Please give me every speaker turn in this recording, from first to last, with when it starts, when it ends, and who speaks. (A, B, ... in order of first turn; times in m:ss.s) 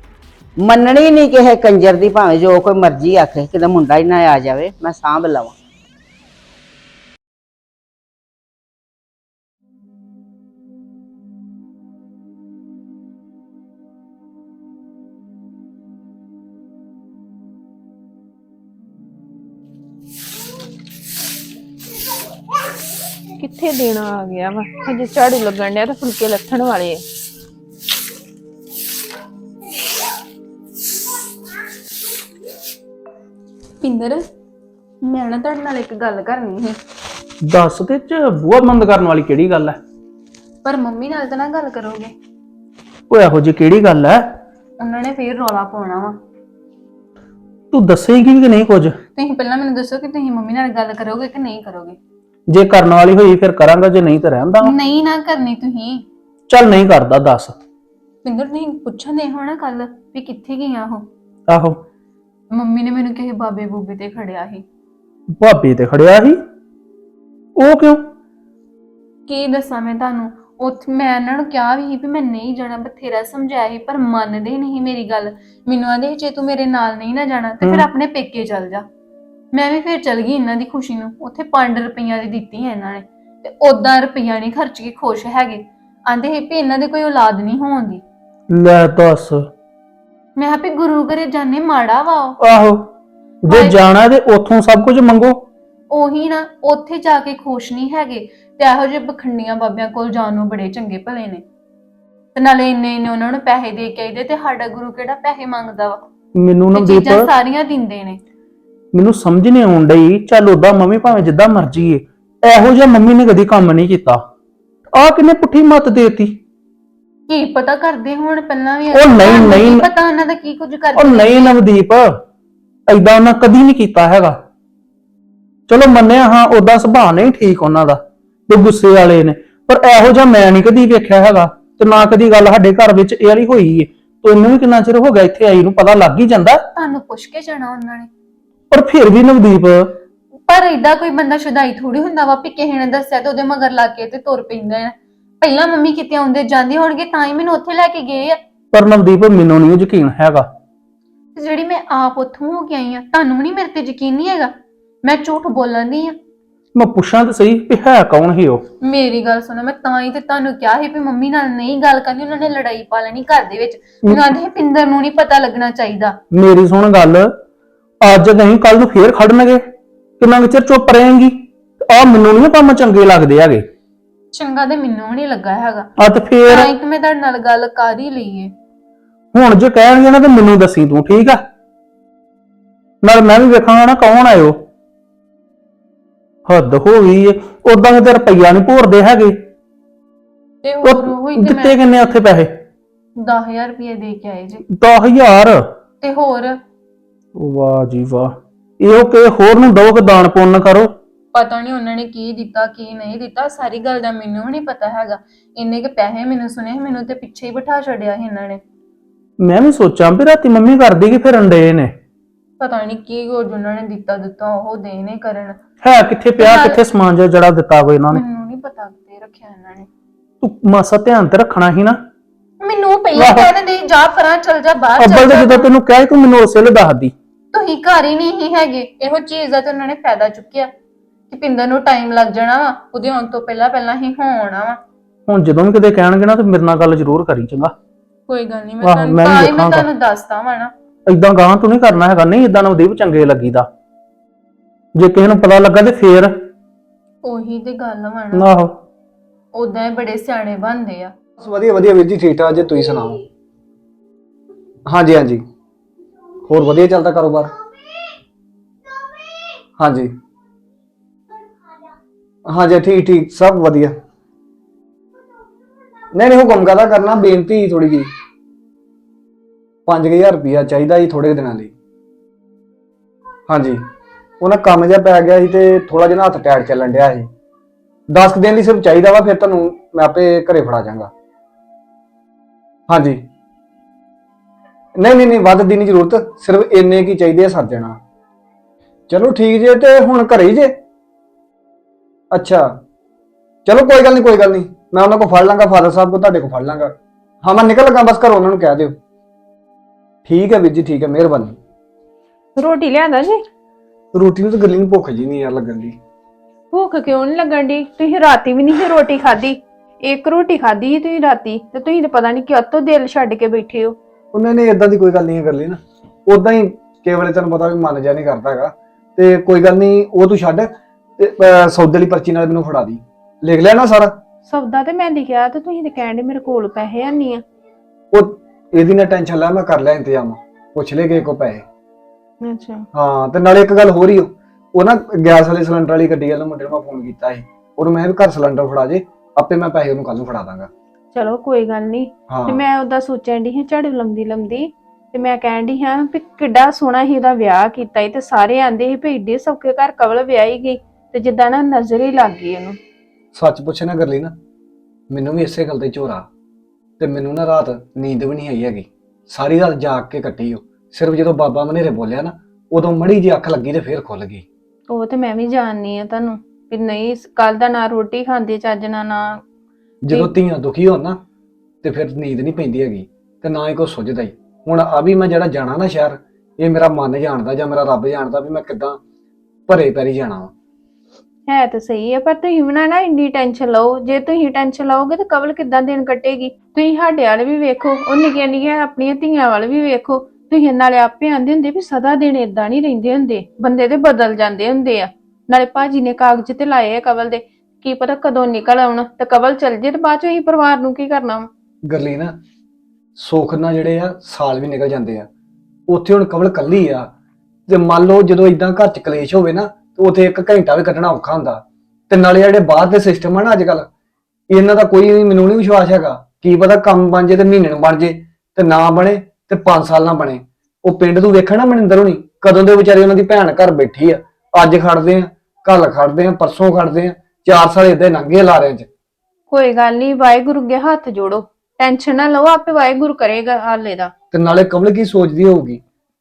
0:00.6-0:05.6 A
0:23.4-0:27.0 B
0:33.8-0:34.2 C
0:35.0-0:36.8 C
0:37.4-0:39.8 D
0:40.6-0:42.1 C
0:43.1-0:44.2 D
0:44.8-0:46.2 C
0:47.7-0:49.0 D
0:49.1-0:52.0 C
0:52.5-0:54.7 D
0:54.6-0:56.0 C
0:56.5-0:57.6 D
0:58.2-1:01.1 C
1:01.5-1:01.8 D
1:02.5-1:04.6 C
1:05.4-1:06.4 D
1:07.6-1:08.0 D
1:09.3-1:18.9 C
1:19.5-1:28.0 C
1:28.5-1:29.4 D
1:30.4-1:32.4 C
1:32.4-1:32.9 D
1:33.4-1:35.4 D
1:33.5-1:33.8 C
1:35.9-1:41.4 C
1:42.3-1:46.0 C
1:46.4-1:47.3 D
1:46.7-1:48.2 C
1:48.9-1:54.2 D
1:54.9-1:56.4 D
1:57.3-2:01.6 C
1:58.9-1:59.9 D
2:01.0-2:02.1 D
2:02.9-2:04.4 D
2:05.7-2:16.6 D
2:16.7-2:18.1 C
2:18.7-2:19.8 D
2:20.5-2:28.4 C
2:28.7-2:30.4 D
2:31.4-2:34.5 C
2:35.0-2:36.2 C
2:36.7-2:38.6 D
2:38.8-2:46.2 C
2:46.3-2:47.3 D
2:48.0-2:49.6 D
2:50.2-2:53.7 D
2:54.3-2:55.9 C
2:56.0-2:56.7 D
2:56.5-2:58.5 C
2:59.3-3:01.4 D
3:03.0-3:04.6 D
3:06.4-3:09.4 D
3:10.6-3:12.0 C
3:10.8-3:12.5 D
3:13.2-3:14.6 C
3:14.7-3:15.6 D
3:16.0-3:16.6 C
3:17.4-3:20.9 D
3:21.3-3:28.6 C
3:29.4-3:31.9 D
3:32.6-3:35.6 C
3:35.8-3:38.2 D
3:36.4-3:36.8 C
3:38.1-3:39.9 C
3:40.4-3:42.0 D
3:42.6-3:45.7 C
3:43.1-3:43.5 D
3:45.0-3:47.1 D
3:47.5-3:50.7 C
3:51.3-3:54.8 C
3:55.3-3:57.7 D
3:58.3-4:00.7 C
3:58.8-3:59.9 D
4:01.1-4:03.7 D
4:05.0-4:06.3 D
4:07.2-4:08.5 C
4:08.3-4:08.7 D
4:09.5-4:11.1 C
4:11.4-4:13.2 E
4:14.9-4:15.4 E
4:16.5-4:17.5 E
4:19.8-4:20.1 E
4:22.5-4:23.9 E
4:26.1-4:28.1 E
4:29.8-4:31.7 E
4:33.5-4:33.8 E
4:34.4-4:37.3 E
4:38.1-4:41.1 E
4:42.9-4:43.2 E
4:45.0-4:48.0 E
4:49.1-4:50.7 E
4:52.3-4:52.7 E
4:53.6-4:56.9 E
4:57.4-4:59.0 E
5:00.2-5:01.5 E
5:02.6-5:03.4 B
5:04.1-5:06.0 E
5:06.7-5:14.0 B
5:14.3-5:24.1 E
5:24.4-5:27.4 B
5:28.1-5:31.6 E
5:32.4-5:32.8 B
5:32.9-5:40.7 E
5:41.1-5:52.8 B
5:42.3-5:42.6 E
5:53.3-5:54.3 E
5:55.1-5:56.2 E
5:57.0-6:04.4 E
6:04.9-6:09.4 B
6:10.0-6:11.2 E
6:11.8-6:19.0 E
6:19.7-6:20.5 E
6:21.5-6:41.5 B
6:41.9-6:42.3 E
6:43.2-6:45.3 E
6:45.9-6:47.1 E
6:47.7-6:53.9 E
6:54.5-7:08.9 E
7:09.5-7:14.1 B
7:14.3-7:15.8 E